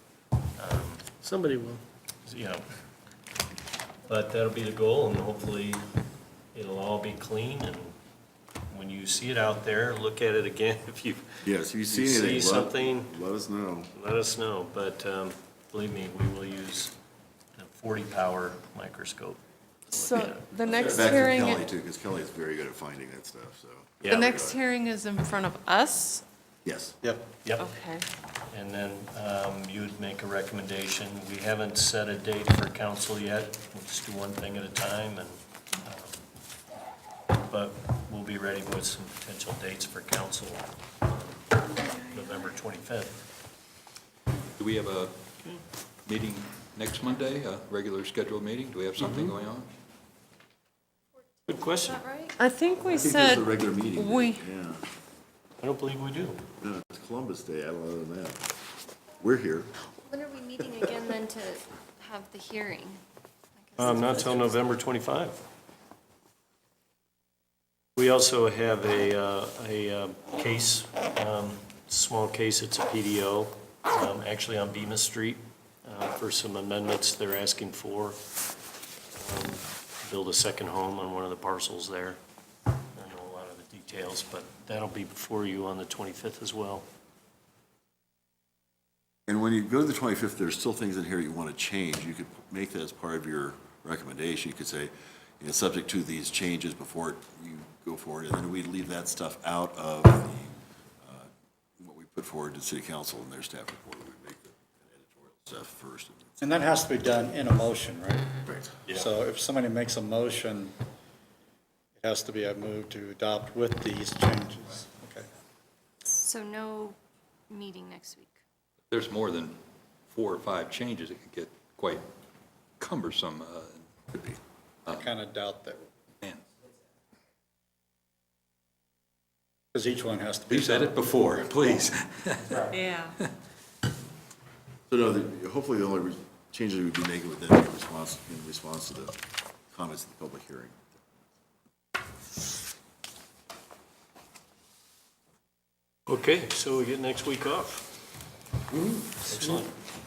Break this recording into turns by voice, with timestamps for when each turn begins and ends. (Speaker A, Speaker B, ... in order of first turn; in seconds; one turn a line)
Speaker A: 0.6-2.7
Speaker A: 4.1-5.8
Speaker A: 6.5-8.0
Speaker A: 8.7-13.1
Speaker B: 11.4-13.9
Speaker A: 13.9-16.9
Speaker A: 17.6-21.1
Speaker C: 19.9-21.6
Speaker B: 20.6-24.6
Speaker A: 24.0-24.4
Speaker C: 24.1-26.2
Speaker B: 26.6-27.0
Speaker D: 27.0-27.3
Speaker A: 27.4-27.7
Speaker C: 27.6-28.1
Speaker A: 28.5-36.3
Speaker A: 37.4-43.2
Speaker E: 44.6-45.2
Speaker E: 46.0-49.7
Speaker A: 49.0-49.3
Speaker F: 51.2-52.4
Speaker A: 51.5-52.0
Speaker C: 52.4-54.4
Speaker B: 52.8-54.9
Speaker A: 55.6-56.4
Speaker B: 56.6-58.4
Speaker B: 59.2-59.7
Speaker F: 60.0-63.0
Speaker F: 63.6-64.6
Speaker A: 63.8-65.4
Speaker A: 68.0-78.2
Speaker A: 79.1-82.2
Speaker A: 83.0-86.9
Speaker B: 89.3-106.4
Speaker D: 106.4-108.3
Speaker B: 108.5-109.1
Speaker D: 108.9-110.8
Speaker D: 112.0-115.3
Speaker F: 116.1-117.0
Speaker F: 117.5-118.4
Speaker E: 118.9-119.6
Speaker E: 120.1-122.1
Speaker E: 122.8-123.8
Speaker D: 124.9-125.9
Speaker E: 126.2-126.5
Speaker D: 129.7-131.0
Speaker E: 130.5-133.3
Speaker B: 134.9-139.2
Speaker B: 139.7-140.8
Speaker A: 146.1-147.9
Speaker A: 149.2-149.7